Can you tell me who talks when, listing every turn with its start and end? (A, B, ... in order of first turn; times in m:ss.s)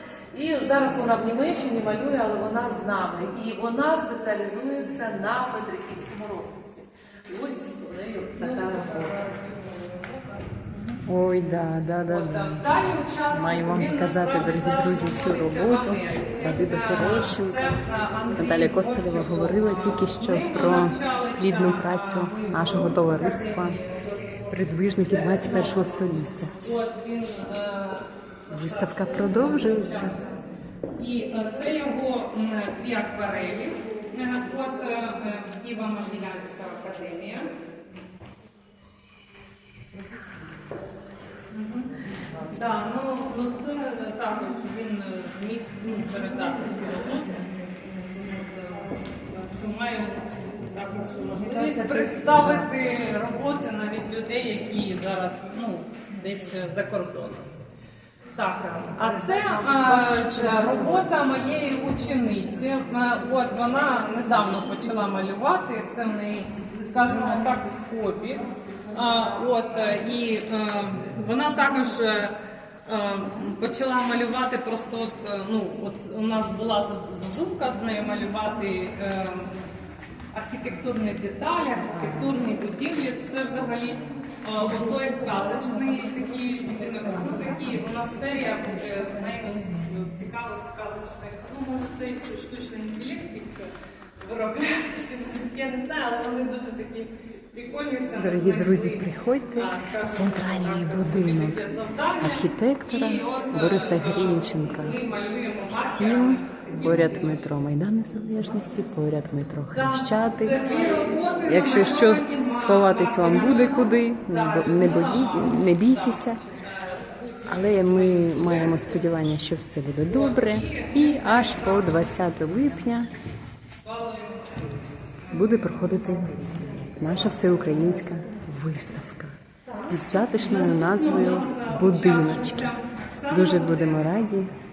0:00.3-0:09.3 A
0:08.4-0:09.6 B
0:11.1-0:12.7 C
0:12.1-0:30.4 B
0:13.3-0:17.8 C
0:18.3-0:23.8 C
0:24.5-0:26.6 C
0:28.5-0:30.1 C
0:31.0-0:37.5 B
0:41.5-0:57.4 B
0:51.5-0:52.7 C
0:58.3-1:12.3 B
0:59.2-1:01.1 C
1:12.9-1:19.5 B
1:20.3-1:47.5 B
1:38.2-1:41.7 C
1:42.2-1:45.0 C
1:45.7-1:50.7 C
1:49.7-1:59.0 B
1:51.4-1:56.4 C
1:57.5-2:03.1 C
2:00.1-2:02.1 B
2:03.8-2:05.9 B
2:05.3-2:09.3 C
2:09.7-2:14.3 B
2:09.9-2:12.7 C
2:13.3-2:14.5 C